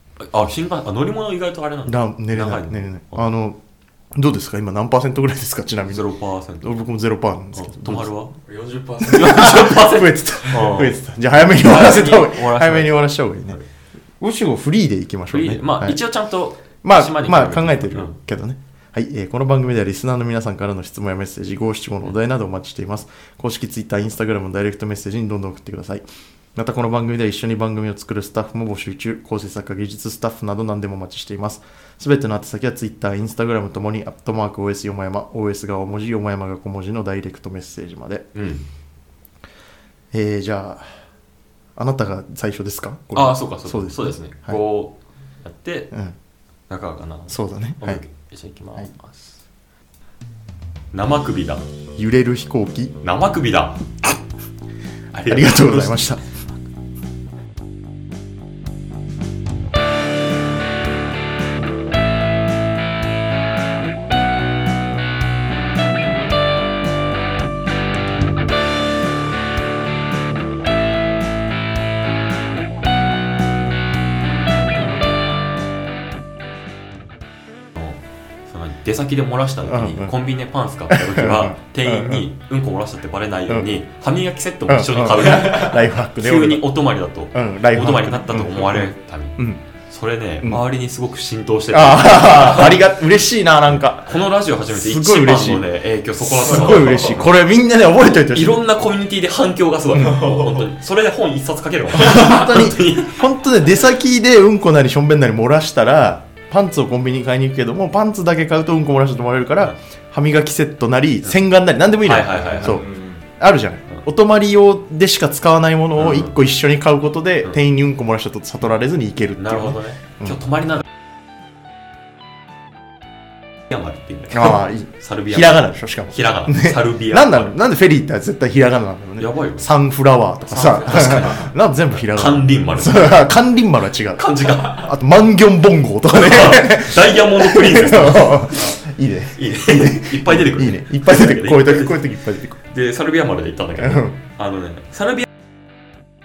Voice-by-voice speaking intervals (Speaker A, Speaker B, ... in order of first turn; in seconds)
Speaker A: 0.2-3.3, 5.8-6.7, 7.5-8.3, 9.0-10.9, 11.6-13.7, 15.3-18.2, 38.3-38.6, 43.1-45.9, 46.7-49.4, 50.9-51.6, 53.0-53.9, 55.1-56.3, 77.7-92.8, 93.7-97.3, 98.3-103.2, 112.0-112.8, 116.0-116.3, 119.4-120.8, 123.7-127.6, 129.2-129.7, 130.5-133.3, 134.1-134.9, 136.1-138.8, 139.3-142.1, 142.6-145.3
Speaker B: 1.9-3.6, 4.1-6.0, 6.6-8.1, 9.1-13.6, 14.2-16.0, 16.8-38.2, 40.1-40.8, 41.8-44.6, 47.3-48.0, 52.0-52.9, 55.2-56.2, 79.6-80.1, 80.9-82.2, 84.7-86.7, 87.3-89.6, 91.7-94.2, 94.7-95.7, 96.2-98.6, 101.9-120.4, 124.3-142.6, 143.8-144.2
Speaker C: 8.4-9.6, 100.0-100.7, 112.6-113.2